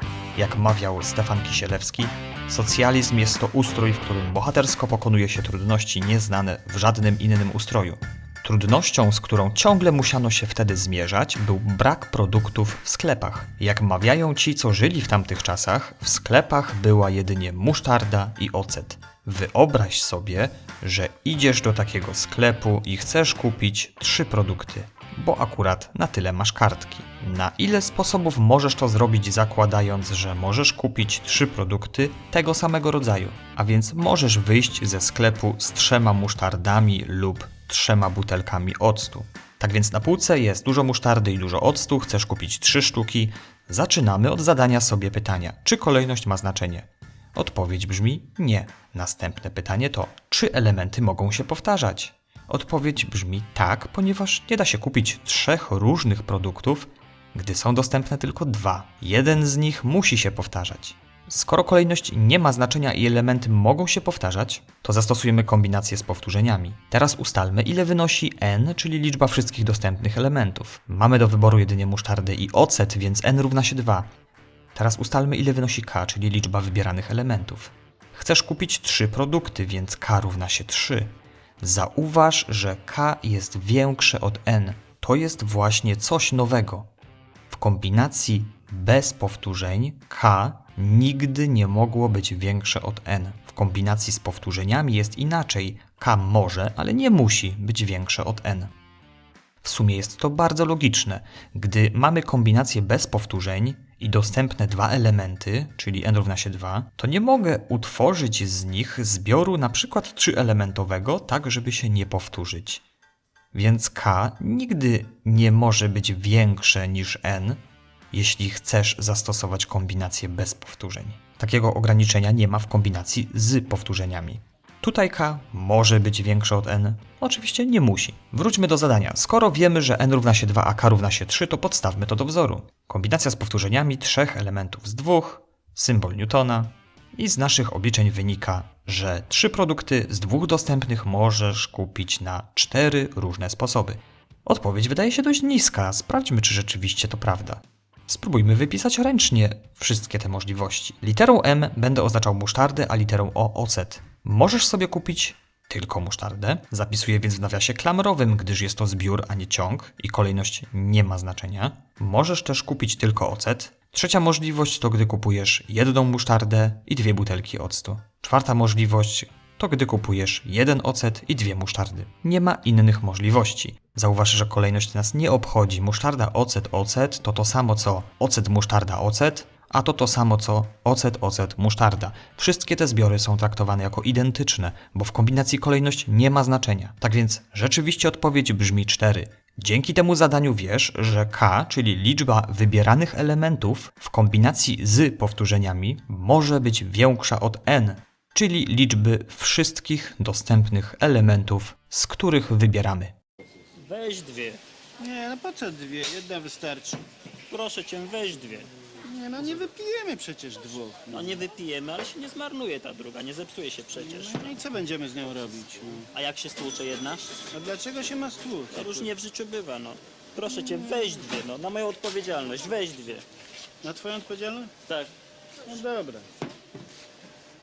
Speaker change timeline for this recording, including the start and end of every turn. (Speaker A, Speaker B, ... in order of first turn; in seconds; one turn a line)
Speaker A: 0.3-74.1
Speaker A: 74.7-86.9
Speaker A: 87.5-98.7
Speaker A: 99.6-112.8
Speaker A: 113.5-203.1
Speaker B: 203.8-204.6
Speaker C: 205.0-207.0
Speaker B: 207.5-208.7
Speaker C: 209.0-211.4
Speaker B: 211.1-214.4
Speaker C: 214.0-216.1
Speaker B: 216.1-217.4
Speaker C: 217.5-219.1
Speaker B: 218.7-223.2
Speaker C: 223.8-224.8
Speaker B: 224.9-225.1
Speaker C: 225.6-226.3